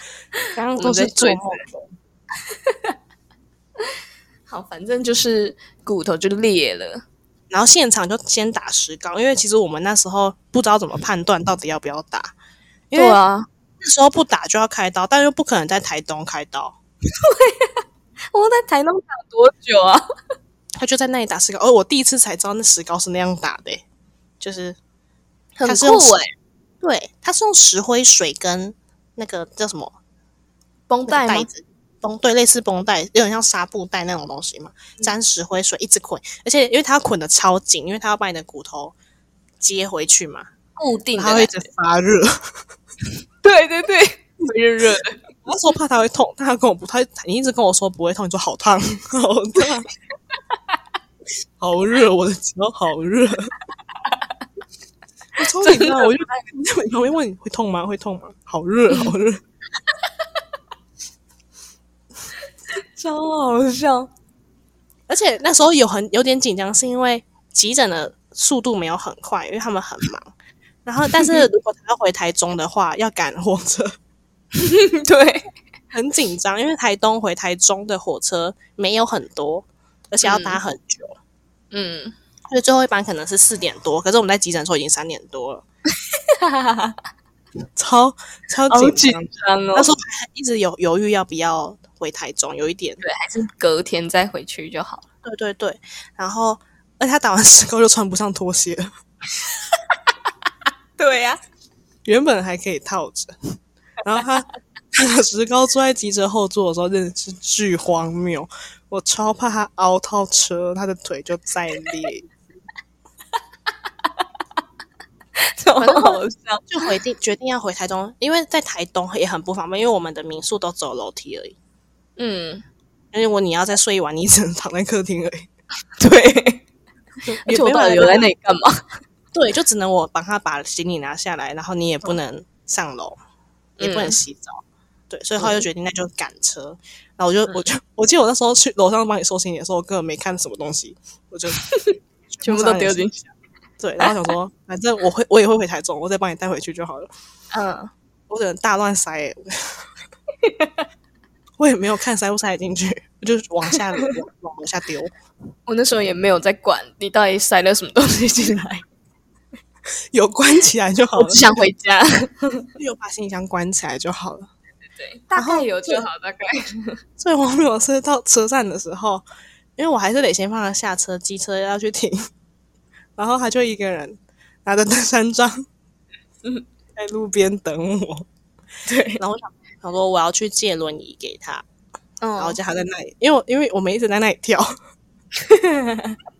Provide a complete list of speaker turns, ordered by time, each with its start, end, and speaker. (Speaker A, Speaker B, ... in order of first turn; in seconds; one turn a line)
Speaker A: 0.5-1.9
Speaker B: 0.8-1.6
Speaker B: 2.5-2.9
Speaker B: 4.5-7.0
Speaker A: 7.5-12.3
Speaker A: 12.9-13.2
Speaker B: 12.9-13.5
Speaker A: 13.8-16.8
Speaker B: 17.2-17.8
Speaker B: 18.3-20.0
Speaker A: 20.8-23.8
Speaker A: 24.4-24.8
Speaker B: 25.6-26.3
Speaker A: 25.6-26.2
Speaker A: 26.8-30.0
Speaker B: 30.9-31.5
Speaker A: 31.1-38.9
Speaker A: 39.6-40.5
Speaker B: 40.8-41.5
Speaker A: 41.2-42.4
Speaker B: 43.4-45.2
Speaker A: 45.4-49.9
Speaker A: 51.6-53.5
Speaker A: 55.4-59.4
Speaker B: 55.6-56.2
Speaker B: 62.8-64.1
Speaker A: 65.1-70.3
Speaker A: 70.8-74.0
Speaker B: 74.5-75.5
Speaker A: 75.9-81.2
Speaker B: 80.2-80.6
Speaker B: 81.7-82.1
Speaker A: 82.5-85.6
Speaker B: 86.1-87.0
Speaker A: 87.8-93.0
Speaker B: 88.7-89.9
Speaker B: 93.0-95.0
Speaker A: 95.2-98.9
Speaker B: 101.0-101.4
Speaker A: 102.0-103.3
Speaker A: 104.0-112.3
Speaker B: 115.4-116.7
Speaker A: 115.8-121.5
Speaker B: 122.2-122.6
Speaker A: 123.1-125.5
Speaker B: 126.0-126.6
Speaker A: 127.3-128.2
Speaker B: 127.4-128.8
Speaker A: 129.3-133.2
Speaker A: 133.8-141.6
Speaker B: 133.8-134.2
Speaker B: 135.4-135.6
Speaker B: 141.6-143.2
Speaker A: 142.3-147.1
Speaker B: 147.5-147.9
Speaker A: 148.3-149.8
Speaker B: 150.4-150.8
Speaker A: 151.6-155.1
Speaker B: 155.7-158.8
Speaker A: 160.1-161.4
Speaker B: 161.2-162.7
Speaker A: 162.8-164.5
Speaker B: 165.0-167.0
Speaker A: 165.3-166.1
Speaker A: 167.2-169.2
Speaker A: 169.8-172.2
Speaker A: 173.2-175.7
Speaker A: 176.9-178.3
Speaker B: 178.8-179.2
Speaker A: 179.2-181.7
Speaker B: 182.2-182.6
Speaker A: 182.4-184.7
Speaker B: 185.3-186.2